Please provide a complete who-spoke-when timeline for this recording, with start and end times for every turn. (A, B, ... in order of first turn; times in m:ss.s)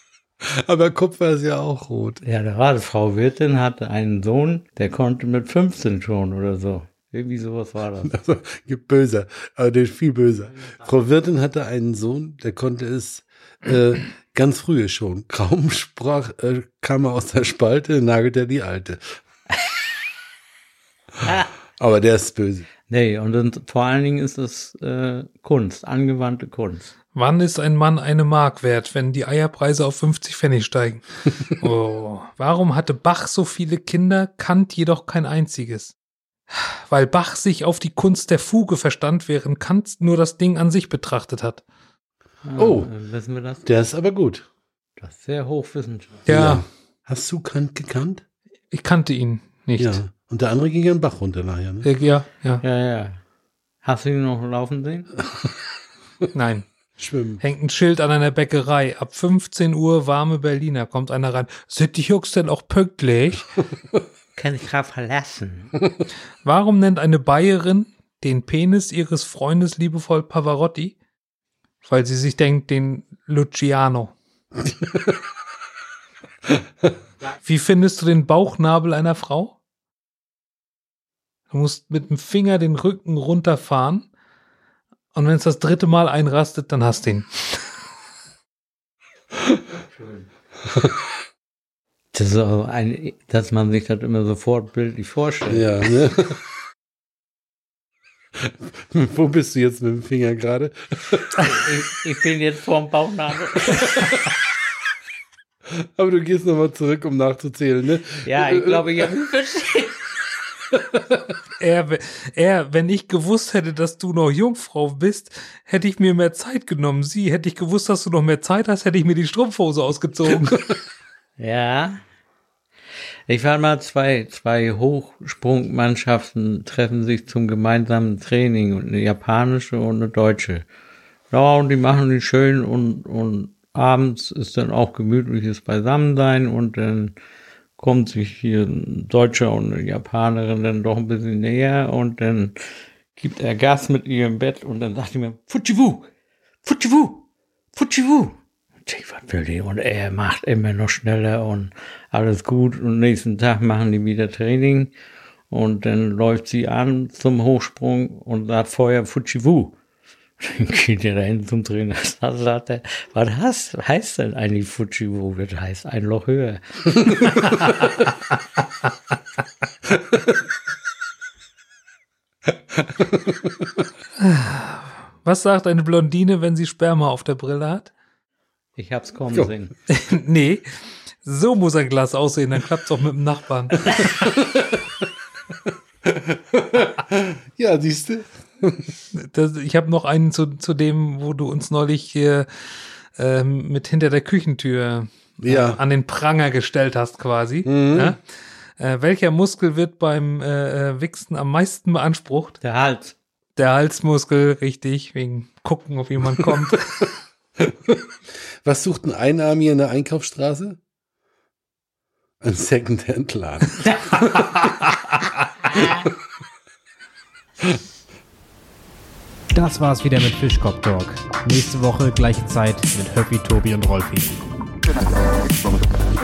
0:00.4-0:02.2 A
0:02.2-0:08.2 B
0:08.0-0:19.0 A
0:21.2-0:21.5 B
0:21.8-0:22.6 A
0:22.9-0:26.9 B
0:27.2-0:36.0 C
0:36.5-0:41.6 C
0:42.4-0:43.6 B
0:42.6-0:42.9 A
0:43.6-0:44.5 A
0:45.0-0:46.3 B
0:46.3-0:46.7 C
0:46.3-0:48.2 A
0:48.7-0:50.0 C
0:49.8-0:51.9 A
0:51.8-0:52.6 C
0:52.6-0:53.2 B
0:53.8-0:55.1 B
0:56.3-0:56.7 C
0:57.0-0:57.4 A
0:57.4-1:03.6 C
1:04.4-1:05.7 B
1:06.4-1:11.0 C
1:11.8-1:14.1 C
1:17.4-1:19.5 C
1:21.5-1:24.1 C
1:25.1-1:27.7 C
1:30.0-1:30.3 B
1:32.1-1:35.9 B
1:35.5-1:36.4 A
1:38.4-1:41.4 A
1:41.4-1:44.0 B
1:45.7-1:49.1 A
1:48.2-1:50.0 B
1:50.7-1:51.2 A
1:51.6-2:00.7 C
2:01.4-2:02.0 B
2:03.3-2:10.7 B
2:11.3-2:17.2 B
2:17.8-2:22.6 B
2:23.2-2:26.1 B
2:26.6-2:34.9 B
2:35.5-2:39.8 B
2:40.4-2:47.6 B
2:52.8-2:53.5 A
2:54.2-2:57.9 C
2:58.8-2:59.7 B
2:59.9-3:00.6 C
3:01.2-3:04.5 C
3:06.1-3:08.9 A
3:09.1-3:12.5 C
3:13.2-3:18.2 C
3:15.4-3:15.8 A
3:17.7-3:18.2 A
3:18.8-3:22.6 C
3:22.6-3:23.2 B
3:23.6-3:27.1 C
3:27.6-3:28.0 A
3:28.6-3:30.8 A
3:32.4-3:34.4 A
3:33.8-3:34.1 B
3:39.5-3:44.4 D